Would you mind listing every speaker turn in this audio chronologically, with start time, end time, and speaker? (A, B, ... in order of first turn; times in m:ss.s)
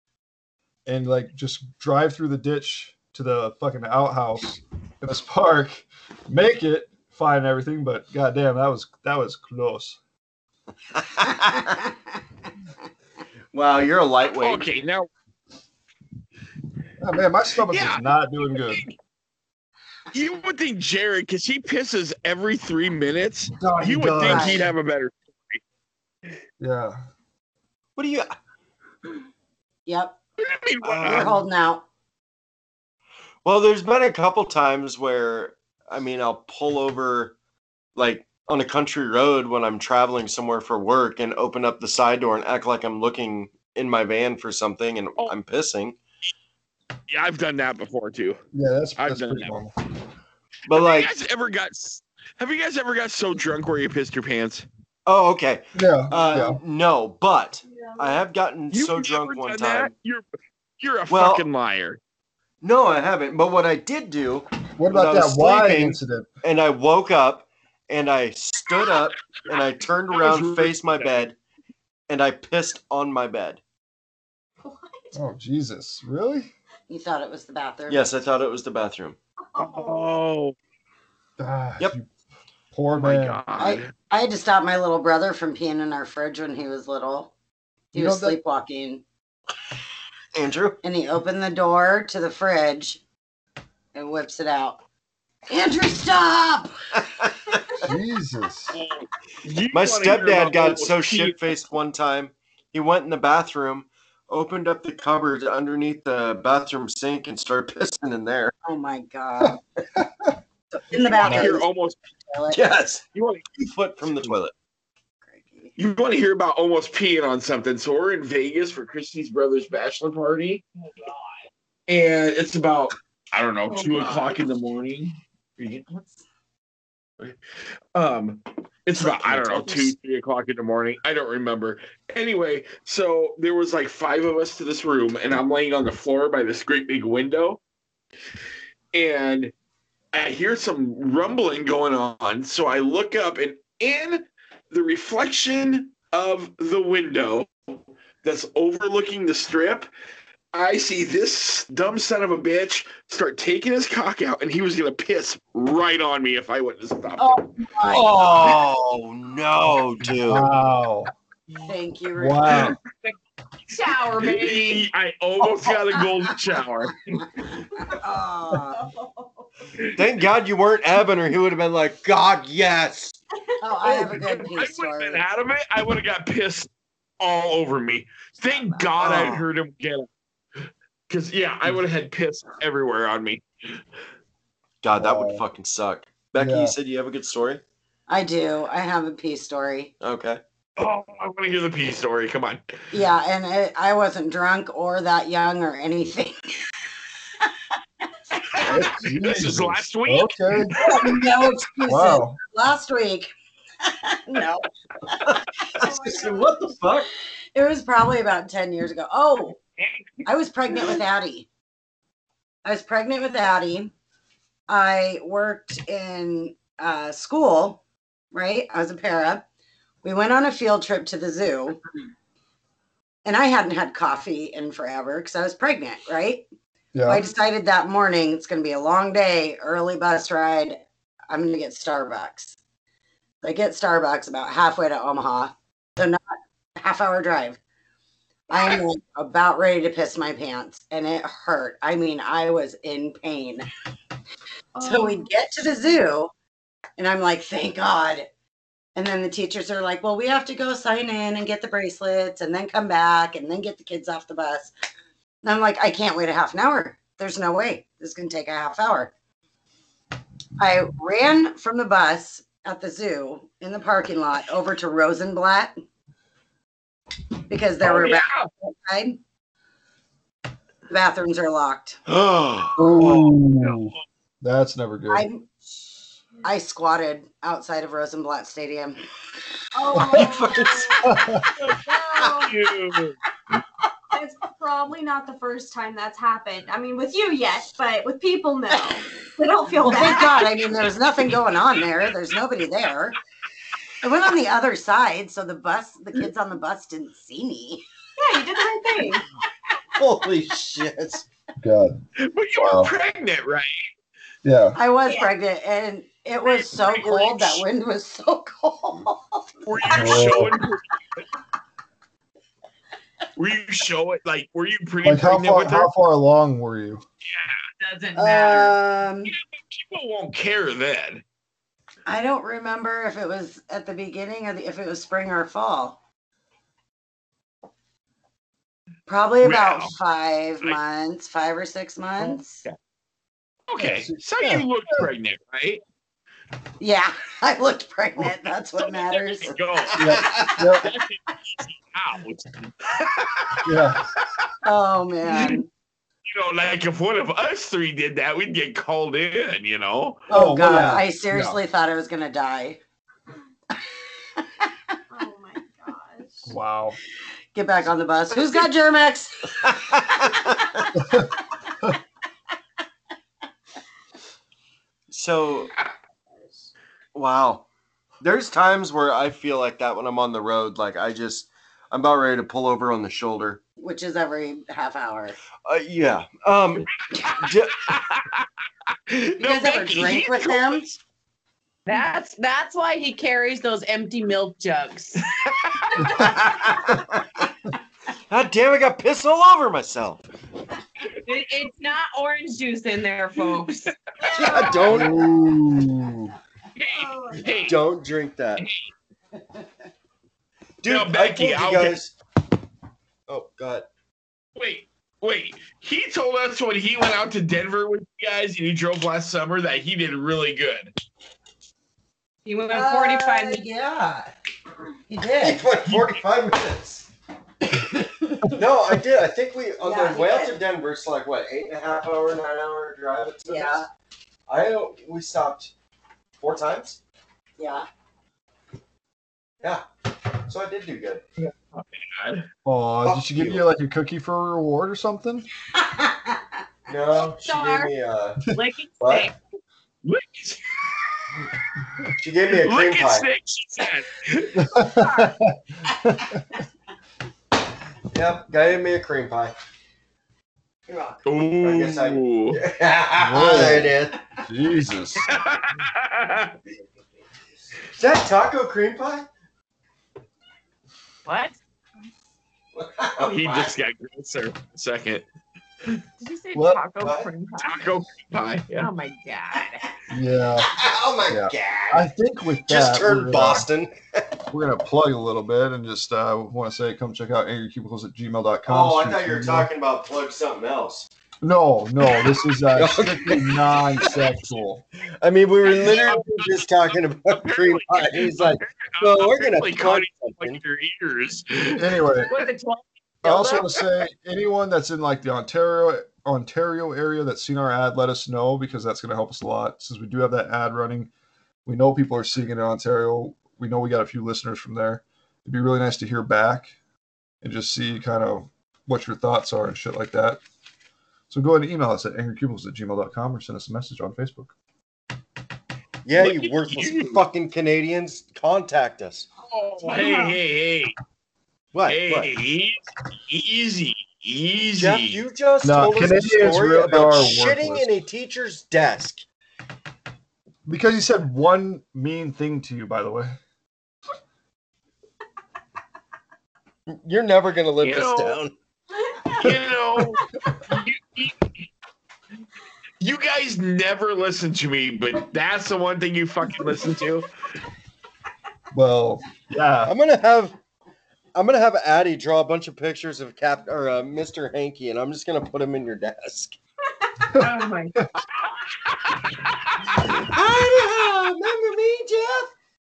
0:00.9-0:10.0 A
0:11.0-0:11.8 B
0:13.5-0:14.7 B
0:14.4-0:15.1 C
0:17.0-0:18.8 A
0:17.7-0:19.0 C
0:20.1-0:25.6 C
0:23.6-0:24.7 A
0:24.2-0:24.6 D
0:26.6-0:27.0 A
0:28.0-0:28.3 B
0:29.9-0:30.2 D
0:30.4-0:31.4 C
0:30.8-0:31.4 B
0:31.0-0:31.8 D
0:33.4-0:37.4 B
0:38.0-0:46.0 B
0:47.1-0:48.4 C
0:48.5-0:49.7 A
0:49.0-0:49.6 C
0:50.7-0:51.1 B
0:50.7-0:54.6 C
0:55.1-0:59.9 B
0:55.8-0:56.6 A
0:57.6-0:58.2 E
0:58.7-1:00.2 C
1:00.8-1:02.0 C
1:01.1-1:01.5 B
1:02.6-1:11.4 B
1:04.8-1:06.2 A
1:10.1-1:11.3 C
1:12.1-1:13.6 B
1:14.6-1:15.2 E
1:15.1-1:16.5 A
1:16.9-1:18.0 D
1:17.9-1:19.2 B
1:19.6-1:20.1 E
1:19.6-1:20.6 C
1:21.4-1:22.1 A
1:22.7-1:23.4 A
1:23.0-1:23.9 C
1:23.6-1:27.3 D
1:27.9-1:29.0 D
1:27.9-1:28.4 A
1:30.3-1:30.8 B
1:30.8-1:33.0 D
1:33.9-1:34.8 D
1:35.5-1:36.7 D
1:37.8-1:38.8 A
1:38.7-1:41.4 C
1:39.7-1:48.5 B
1:48.6-1:49.6 D
1:49.4-1:50.4 A
1:50.7-1:51.7 D
1:51.0-1:52.0 C
1:51.2-1:51.6 A
1:52.3-1:52.6 D
1:52.5-1:53.0 B
1:53.1-1:53.4 C
1:53.6-1:54.5 B
1:55.3-1:55.7 D
1:55.8-2:00.6 C
2:01.9-2:06.1 C
2:08.0-2:17.6 C
2:09.0-2:09.9 B
2:18.9-2:19.5 C
2:20.1-2:27.5 C
2:28.2-2:29.9 C
2:30.5-2:37.5 C
2:37.2-2:38.5 D
2:37.8-2:40.5 B
2:40.2-2:41.1 A
2:41.6-2:42.6 D
2:42.2-2:42.8 A
2:42.5-2:43.1 C
2:43.7-2:44.8 F
2:44.2-2:47.2 C
2:47.8-2:48.8 D
2:48.7-2:49.4 E
2:50.0-2:53.2 B
2:53.6-2:55.2 D
2:54.0-3:00.1 C
2:59.0-2:59.4 B
3:01.1-3:03.4 C
3:04.8-3:07.6 B
3:05.0-3:05.4 A
3:06.4-3:06.8 A
3:08.1-3:09.9 D
3:10.0-3:10.4 B
3:10.8-3:12.6 C
3:12.9-3:16.4 D
3:18.6-3:20.8 A
3:18.6-3:21.0 C
3:20.8-3:23.3 D
3:21.9-3:22.4 A
3:23.9-3:25.2 D
3:25.2-3:27.1 B
3:25.8-3:27.0 E
3:27.5-3:29.6 D
3:29.8-3:30.2 C
3:30.2-3:31.5 D
3:32.6-3:33.9 D
3:34.7-3:39.4 D
3:40.0-3:41.8 D
3:43.2-3:46.5 D
3:46.9-3:47.2 A
3:47.1-3:52.6 D
3:53.4-3:57.6 D
3:58.5-4:03.7 D
4:04.8-4:05.3 E
4:04.8-4:06.3 D
4:07.0-4:08.3 D
4:09.0-4:14.7 D
4:15.4-4:19.1 D
4:20.6-4:25.8 D
4:27.5-4:29.2 D
4:27.8-4:28.5 C
4:30.9-4:32.0 D
4:32.1-4:33.3 B
4:32.8-4:35.2 A
4:33.6-4:33.9 C
4:35.1-4:35.5 D
4:36.4-4:39.0 D
4:39.7-4:42.5 E
4:40.1-4:41.1 B
4:41.0-4:41.5 A
4:41.6-4:43.2 C
4:44.1-4:50.7 E
4:49.8-4:53.2 D
4:54.0-4:57.8 D
4:58.2-4:59.2 E
5:00.0-5:01.2 B
5:01.6-5:02.0 A
5:02.2-5:03.9 C
5:02.6-5:02.9 A
5:04.4-5:04.8 A
5:04.8-5:10.3 D
5:05.0-5:05.3 E
5:06.5-5:07.6 C
5:09.6-5:11.2 C
5:09.9-5:10.6 A
5:13.4-5:15.9 C
5:15.0-5:17.0 A
5:17.2-5:17.7 C
5:17.8-5:18.8 F
5:18.1-5:19.3 D
5:19.2-5:21.2 C
5:22.1-5:26.0 D
5:29.1-5:32.6 D
5:29.4-5:29.9 C
5:32.2-5:32.8 C
5:33.7-5:35.8 C
5:33.8-5:35.1 A
5:36.8-5:39.6 D
5:38.8-5:44.5 C
5:40.0-5:40.9 A
5:40.0-5:40.4 B
5:43.6-5:44.0 A
5:44.6-5:45.7 D
5:46.3-5:50.2 C
5:50.3-5:51.6 A
5:50.3-5:52.8 D
5:55.1-5:56.6 E
5:56.4-5:57.0 A
5:57.6-5:59.6 D
5:59.6-6:00.8 B
6:01.0-6:01.3 A
6:05.1-6:05.7 B
6:07.1-6:07.7 B
6:08.2-6:13.6 B
6:13.8-6:15.4 D
6:15.6-6:17.9 B
6:17.1-6:21.0 C
6:19.4-6:20.9 D
6:21.9-6:25.3 F
6:25.4-6:25.9 C
6:26.0-6:26.3 A
6:26.1-6:27.4 B
6:28.3-6:30.2 B
6:31.2-6:33.9 F
6:34.2-6:35.3 E
6:34.3-6:35.7 B
6:34.9-6:36.1 A
6:36.8-6:37.8 C
6:36.9-6:37.8 E
6:37.6-6:38.6 B
6:38.6-6:38.9 C
6:40.8-6:42.1 B
6:40.9-6:42.0 C
6:43.3-6:43.9 B
6:44.6-6:50.9 C
6:52.4-6:53.6 F
6:52.7-6:54.4 D
6:55.1-6:55.6 D
6:55.4-6:57.1 B
6:55.9-6:56.1 C
6:58.0-6:58.4 D
6:58.4-7:03.8 B
6:59.8-7:00.6 D
7:03.4-7:03.8 D
7:04.5-7:05.7 B
7:06.4-7:07.0 B
7:07.6-7:07.9 D
7:09.6-7:11.2 B
7:11.4-7:12.5 C
7:12.6-7:15.5 A
7:13.0-7:13.6 B
7:15.8-7:16.4 D
7:16.9-7:18.4 B
7:17.1-7:19.4 F
7:19.0-7:19.3 B
7:20.0-7:21.0 C
7:22.2-7:23.3 B
7:22.5-7:24.7 C
7:24.6-7:26.6 A
7:24.8-7:25.3 F
7:28.1-7:29.6 B
7:30.9-7:31.2 D
7:31.2-7:32.6 C
7:31.6-7:34.2 B
7:33.2-7:33.9 A
7:34.5-7:35.3 A
7:35.3-7:36.6 C
7:37.9-7:39.3 B
7:41.2-7:41.6 F
7:42.7-7:43.8 B
7:43.2-7:45.2 C
7:46.2-7:47.7 F
7:46.5-7:46.8 A
7:47.0-7:47.3 B
7:47.6-7:48.9 C
7:48.7-7:49.9 F
7:50.1-7:50.7 A
7:50.7-7:52.1 B
7:51.3-7:53.7 A
7:52.7-7:54.3 B
7:54.5-7:59.7 A
7:58.7-8:01.1 B
8:01.4-8:04.8 A
8:02.8-8:04.4 B
8:05.2-8:10.6 B
8:05.6-8:12.5 C
8:05.7-8:06.1 F
8:11.8-8:12.3 A
8:12.2-8:13.8 F
8:13.2-8:21.1 A
8:21.6-8:26.7 A
8:27.4-8:30.4 A
8:31.3-8:34.5 A
8:36.0-8:39.3 B
8:36.2-8:37.2 C
8:39.5-8:41.0 C
8:39.8-8:40.1 F
8:41.7-8:42.3 B
8:41.9-8:45.2 C
8:44.8-8:49.2 B
8:45.6-8:47.9 A
8:50.6-8:53.4 A
8:56.9-8:58.5 B
8:57.8-8:58.4 C
8:59.1-8:59.4 E
8:59.4-9:01.5 C
9:03.0-9:07.3 C
9:08.7-9:09.9 A
9:09.8-9:10.6 B
9:11.4-9:16.6 B
9:17.3-9:18.1 A
9:17.3-9:18.1 F
9:18.2-9:20.0 C
9:19.9-9:22.5 B